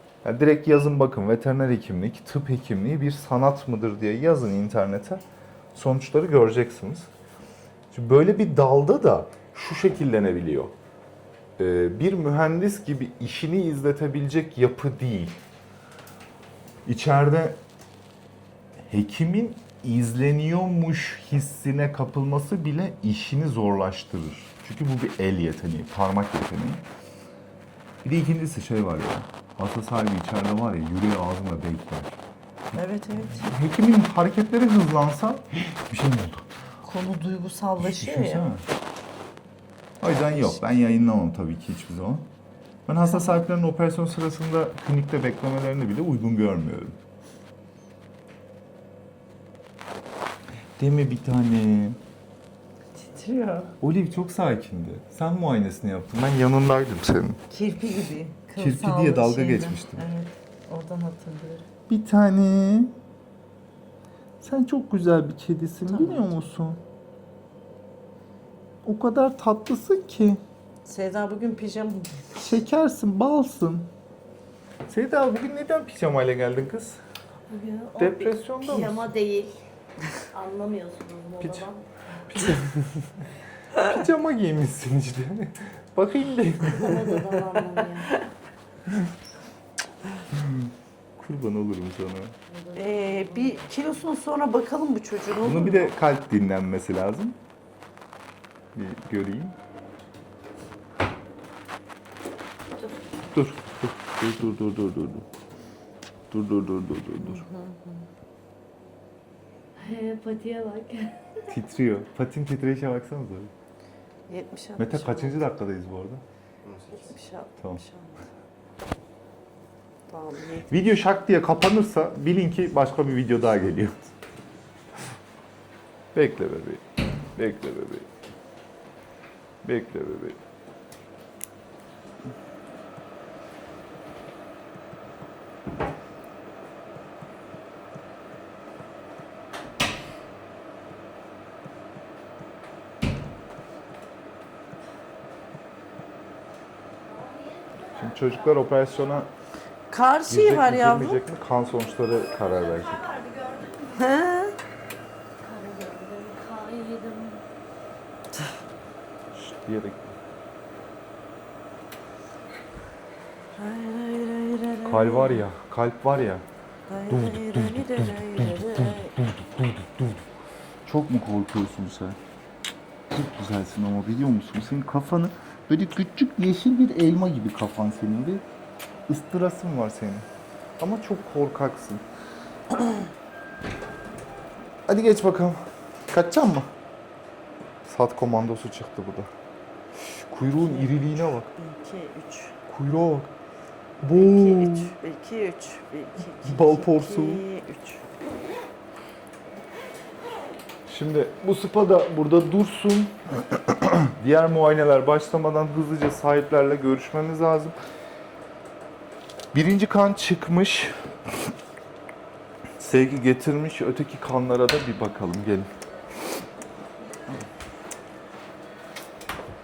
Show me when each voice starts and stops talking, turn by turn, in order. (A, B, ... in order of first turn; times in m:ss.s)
0:00.2-0:05.2 A
0:05.7-0:07.1 A
0:07.9-0:10.7 A
0:11.6-0:15.4 A
0:16.9-0:17.6 A
0:18.9-0:26.8 A
0:28.0-0:32.2 A
0:32.7-0:33.5 B
0:33.3-0:36.4 A
0:36.8-0:38.5 B
0:37.8-0:38.6 A
0:40.0-0:42.3 A
0:40.1-0:40.6 B
0:42.9-0:47.0 A
0:43.1-0:43.4 B
0:50.8-0:52.0 A
0:53.0-0:53.8 B
0:53.8-0:57.4 A
0:57.5-1:01.7 B
0:58.6-1:00.1 A
1:01.9-1:02.9 A
1:04.4-1:06.8 A
1:05.9-1:06.3 B
1:08.8-1:10.4 A
1:10.8-1:12.6 B
1:12.4-1:13.9 A
1:14.9-1:17.0 A
1:17.5-1:19.6 C
1:18.0-1:19.0 A
1:18.7-1:19.0 B
1:20.3-1:21.8 C
1:21.4-1:21.7 A
1:22.3-1:27.1 A
1:26.7-1:28.1 C
1:26.8-1:27.4 B
1:30.3-1:32.4 A
1:32.5-1:33.6 C
1:32.8-1:35.9 B
1:35.4-1:37.4 A
1:38.8-1:39.6 A
1:43.3-1:45.2 A
1:46.3-1:47.4 A
1:47.2-1:48.1 B
1:49.8-1:51.3 C
1:51.4-1:53.5 A
1:54.3-1:55.5 B
1:54.8-1:56.2 A
1:56.8-1:58.2 B
2:00.1-2:00.7 B
2:00.7-2:04.0 A
2:06.1-2:06.8 A
2:07.4-2:08.1 A
2:09.6-2:10.4 A
2:28.0-2:29.3 A
2:29.9-2:31.2 B
2:30.3-2:33.2 A
2:33.0-2:33.9 C
2:33.9-2:34.6 B
2:35.4-2:37.4 C
2:39.3-2:40.1 A
2:43.6-2:45.4 B
2:44.8-2:46.4 A
2:46.9-2:49.2 B
2:47.1-2:50.2 A
2:50.8-2:52.2 A
2:53.1-2:58.4 A
2:59.1-3:00.3 A
3:00.8-3:02.0 A
3:04.9-3:06.7 A
3:07.8-3:09.3 A
3:10.2-3:11.5 A
3:10.6-3:12.6 B
3:12.7-3:13.3 A
3:14.0-3:15.0 A
3:14.0-3:18.0 B
3:16.4-3:17.4 A
3:20.9-3:27.8 A
3:29.5-3:30.9 A
3:32.8-3:35.7 A